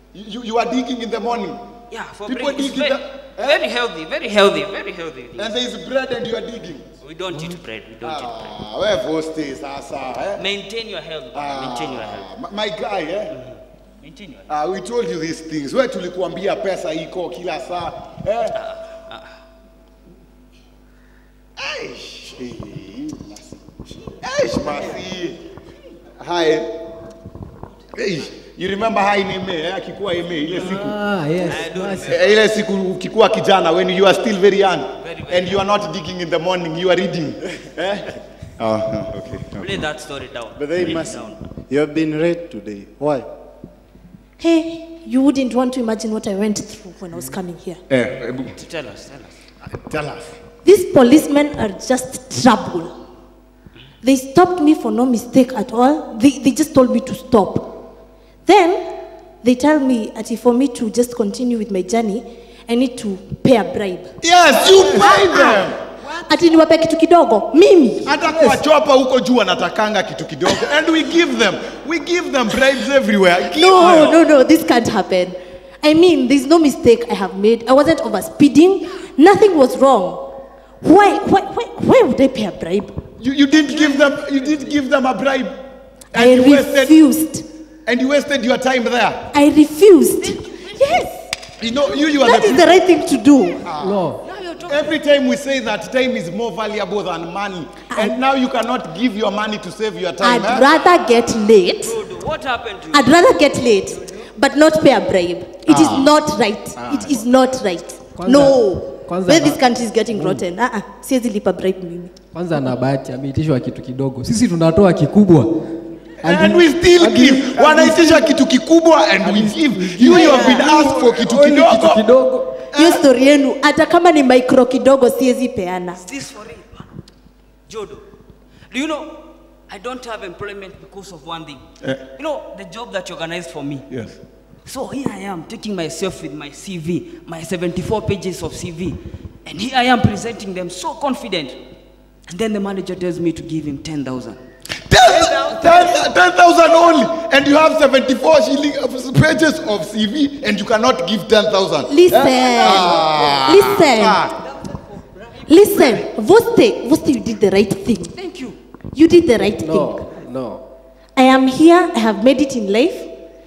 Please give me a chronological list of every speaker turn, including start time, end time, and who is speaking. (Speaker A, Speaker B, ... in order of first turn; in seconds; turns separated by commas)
Speaker A: 0.1-1.6, Speaker B: 1.9-5.6, Speaker A: 2.2-3.7, Speaker A: 5.4-6.9, Speaker B: 7.0-8.5, Speaker A: 8.0-10.4, Speaker B: 10.4-12.3, Speaker A: 11.3-13.3, Speaker B: 13.3-14.5, Speaker A: 14.5-18.6, Speaker B: 18.5-19.2, Speaker A: 21.6-25.4, Speaker A: 26.2-26.8, Speaker A: 27.9-30.9, Speaker C: 30.6-32.1, Speaker B: 31.4-32.4, Speaker A: 32.0-38.0, Speaker B: 35.0-35.6, Speaker A: 38.6-39.6, Speaker B: 39.6-41.4, Speaker D: 40.5-43.3, Speaker E: 44.4-47.8, Speaker A: 47.9-48.5, Speaker B: 48.5-49.4, Speaker A: 49.7-50.3, Speaker E: 50.6-52.9, Speaker E: 54.0-57.8, Speaker E: 58.4-68.1, Speaker A: 64.2-65.7, Speaker A: 68.0-74.2, Speaker C: 68.3-68.6, Speaker E: 73.4-83.0, Speaker A: 83.2-85.5, Speaker A: 86.1-87.0, Speaker E: 86.1-87.5, Speaker A: 87.8-89.3, Speaker E: 89.3-91.1, Speaker A: 91.6-92.8, Speaker E: 91.7-93.7, Speaker A: 93.6-94.1, Speaker C: 93.8-94.2, Speaker B: 94.2-94.9, Speaker A: 94.7-100.7, Speaker E: 97.9-98.2, Speaker E: 100.2-102.0, Speaker B: 101.8-103.2, Speaker E: 102.9-112.1, Speaker A: 105.7-106.1, Speaker A: 106.8-107.2, Speaker C: 108.1-109.6, Speaker C: 110.1-110.4, Speaker C: 112.3-118.4, Speaker A: 116.2-122.0, Speaker C: 119.2-122.5, Speaker A: 122.7-123.0, Speaker E: 122.7-126.0, Speaker B: 126.0-126.9, Speaker B: 127.7-128.0, Speaker B: 128.7-133.9, Speaker A: 133.9-134.2, Speaker B: 134.7-141.6, Speaker B: 142.3-144.4, Speaker A: 144.9-154.3, Speaker B: 145.1-146.2, Speaker E: 151.9-154.2, Speaker E: 155.5-158.2, Speaker E: 158.9-160.1, Speaker C: 159.6-160.6, Speaker E: 161.2-163.1